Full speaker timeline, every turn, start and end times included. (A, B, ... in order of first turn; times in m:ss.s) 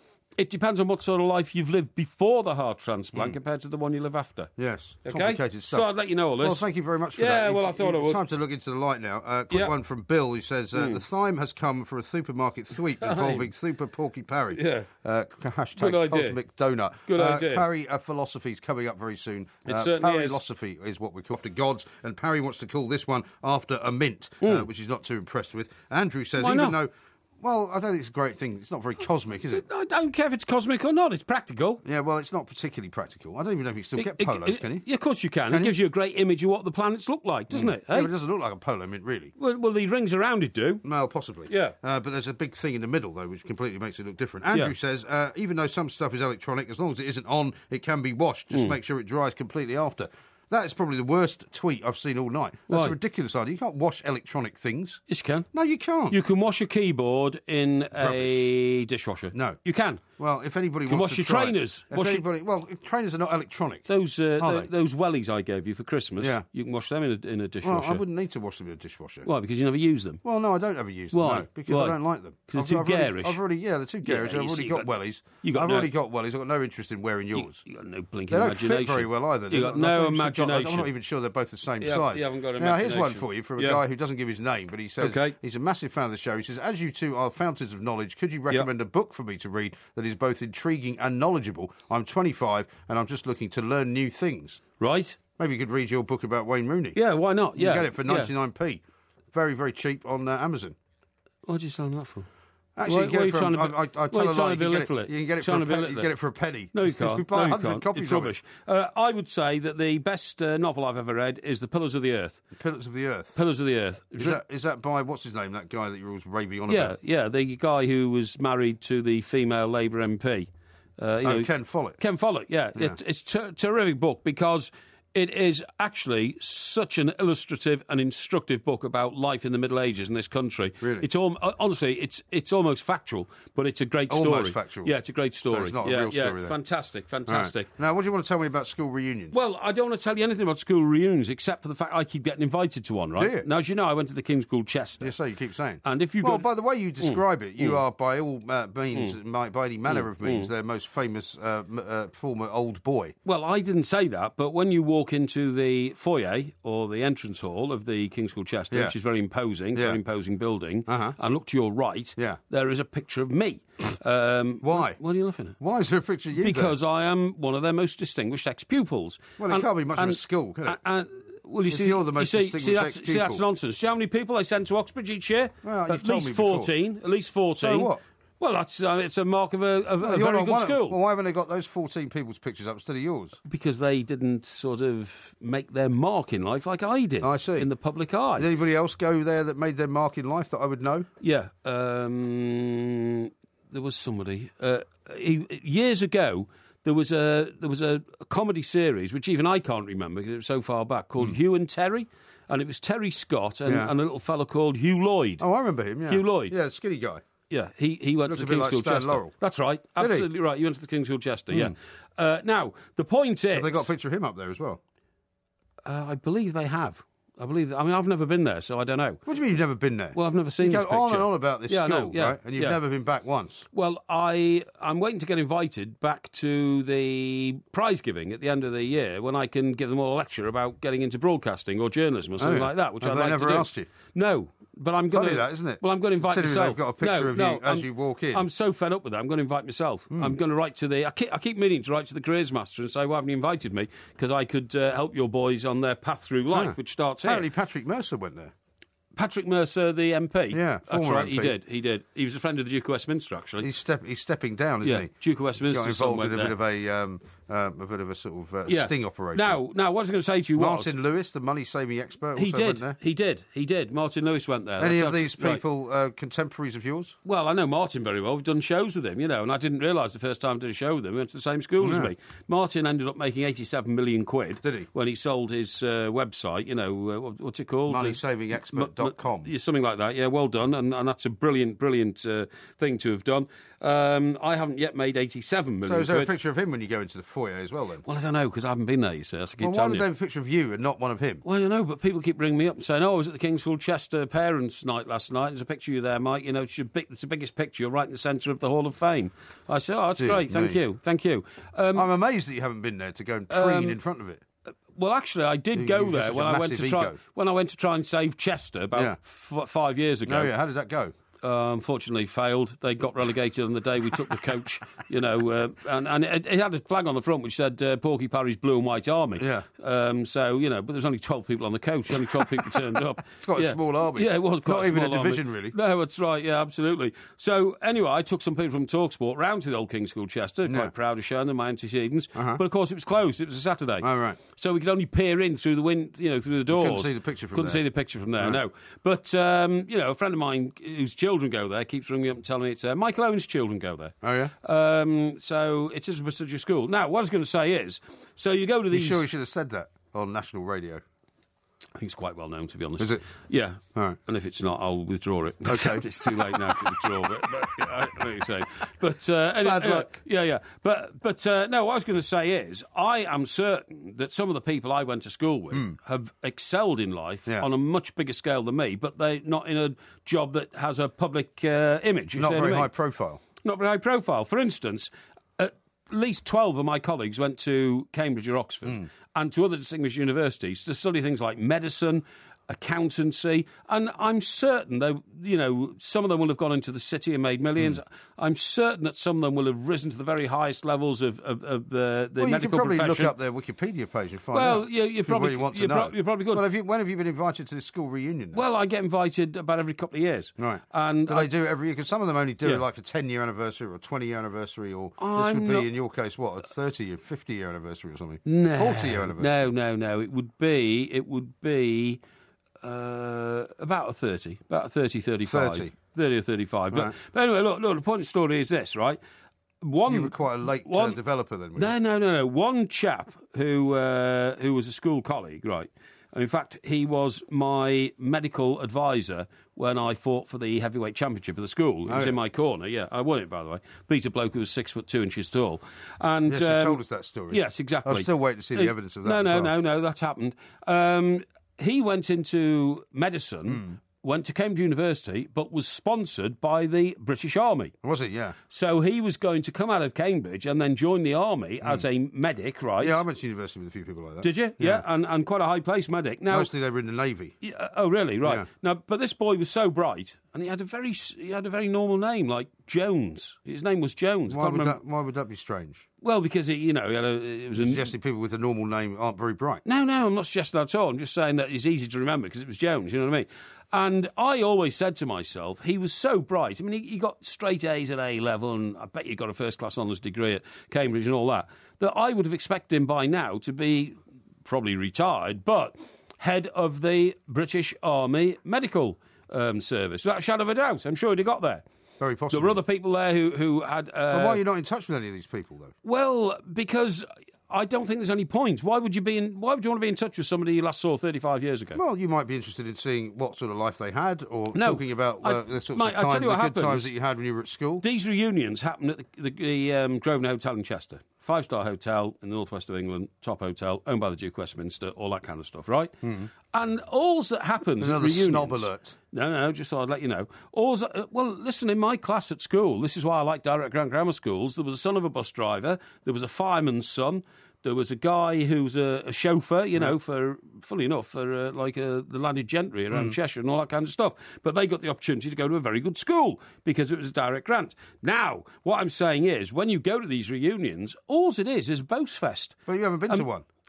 0:00.4-0:04.5 A
0:04.6-0:05.9 B
0:05.0-0:06.6 A
0:06.4-0:29.6 B
0:07.2-0:08.2 A
0:10.7-0:11.0 A
0:13.0-0:13.5 A
0:14.5-0:14.9 A
0:15.8-0:16.4 A
0:17.0-0:17.6 A
0:19.6-0:20.4 A
0:26.4-0:26.8 A
0:29.5-0:31.8 A
0:31.8-0:34.8 B
0:34.0-0:38.1 A
0:35.5-0:35.7 B
0:37.5-0:39.3 B
0:39.4-0:40.8 A
0:40.8-0:55.0 B
0:41.5-0:41.8 A
0:52.7-0:53.0 A
0:55.1-0:55.5 A
0:55.5-0:56.2 B
0:56.1-1:00.0 A
0:58.0-0:58.4 B
0:59.3-0:59.6 B
1:00.2-1:03.9 B
1:00.9-1:02.2 A
1:03.9-1:08.0 A
1:04.4-1:04.7 B
1:06.2-1:06.4 B
1:07.6-1:09.3 B
1:09.2-1:10.2 A
1:10.2-1:17.6 B
1:11.1-1:12.0 A
1:12.5-1:13.4 A
1:14.0-1:14.9 A
1:15.4-1:15.9 A
1:17.3-1:20.9 A
1:18.3-1:34.6 B
1:21.8-1:23.8 A
1:25.0-1:25.4 A
1:34.8-1:35.2 A
1:35.4-1:37.0 B
1:36.9-1:38.3 A
1:37.6-1:40.8 B
1:41.4-1:42.3 A
1:42.8-1:48.3 B
1:42.8-1:46.1 A
1:46.7-1:52.4 A
1:52.5-1:53.4 B
1:53.3-1:54.4 A
1:54.2-1:56.9 B
1:56.7-2:17.7 A
2:01.2-2:02.0 B
2:10.8-2:11.1 B
2:14.1-2:15.0 B
2:15.5-2:16.5 B
2:17.3-2:19.4 B
2:19.3-2:25.1 A
2:23.2-2:23.4 B
2:25.0-2:33.1 B
2:25.8-2:26.5 A
2:27.0-2:27.8 A
2:29.9-2:30.5 A
2:33.2-2:45.6 A
2:39.7-2:40.0 B
2:40.9-2:41.2 B
2:44.6-2:45.0 B
2:45.6-2:46.7 B
2:46.3-3:01.0 A
2:49.4-2:50.8 B
2:51.7-2:53.4 B
2:55.6-2:56.7 B
2:57.6-2:58.0 B
3:00.0-3:03.4 B
3:03.4-3:08.5 A
3:07.2-3:07.7 B
3:08.4-3:11.1 B
3:11.2-3:25.4 A
3:23.7-3:23.9 B
3:25.4-3:27.2 B
3:26.1-3:26.5 A
3:27.5-3:33.9 A
3:28.3-3:29.3 B
3:30.0-3:30.2 B
3:33.5-3:34.8 B
3:35.8-3:39.2 A
3:39.3-3:43.7 B
3:40.1-3:42.8 A
3:43.7-4:07.5 A
3:52.4-3:53.9 B
3:55.1-3:58.4 B
4:00.1-4:00.4 B
4:06.5-4:08.5 B
4:09.2-4:13.7 A
4:10.5-4:11.5 B
4:13.6-4:15.1 B
4:14.8-4:16.5 A
4:15.7-4:19.6 B
4:18.7-4:20.9 A
4:20.6-4:23.0 B
4:22.3-4:25.6 A
4:24.8-4:27.2 B
4:27.2-4:46.3 A
4:31.8-4:32.1 B
4:34.6-4:34.9 B
4:37.9-4:39.5 B
4:45.8-4:48.0 B
4:48.0-4:50.0 A
4:49.6-4:51.4 B
4:51.4-5:02.1 A
5:00.2-5:00.8 B
5:01.9-5:04.4 B
5:03.5-5:04.0 A
5:04.9-5:10.5 A
5:05.7-5:07.2 B
5:08.9-5:09.2 B
5:10.2-5:11.1 B
5:11.4-5:49.2 A
5:19.4-5:19.6 B
5:22.3-5:22.7 B
5:23.4-5:25.7 B
5:32.3-5:32.6 B
5:34.0-5:34.4 B
5:36.7-5:37.8 B
5:44.2-5:44.5 B
5:48.9-5:51.0 B
5:52.0-6:12.9 A
5:53.0-5:53.2 B
5:55.6-5:57.8 B
5:59.6-6:00.1 B
6:12.4-6:13.4 B
6:13.6-6:33.3 A
6:32.4-6:38.6 B
6:34.5-6:36.6 A
6:38.5-6:41.5 A
6:40.6-6:49.7 B
6:45.2-6:45.9 A
6:48.4-6:52.2 A
6:52.8-6:59.2 A
6:55.4-6:55.9 B
6:59.8-7:01.2 A
7:00.1-7:01.9 B
7:01.8-7:17.0 A
7:12.1-7:12.3 B
7:16.5-7:19.7 B
7:17.5-7:27.9 A
7:23.7-7:23.9 B
7:28.0-7:28.6 B
7:28.7-7:33.2 A
7:33.0-7:35.0 B
7:34.4-7:36.7 A
7:36.5-7:37.6 B
7:37.6-7:45.0 A
7:44.5-7:46.0 B
7:46.2-7:48.1 A
7:47.7-7:49.8 B
7:49.8-8:11.8 A
8:12.2-8:12.8 B
8:12.5-8:14.6 A
8:14.3-8:15.9 B
8:16.0-8:22.0 A
8:21.9-8:28.0 B
8:24.7-8:27.1 A
8:28.0-8:36.2 A
8:36.2-8:36.5 B
8:36.7-9:02.8 A
8:38.0-8:39.2 B
9:02.9-9:03.6 B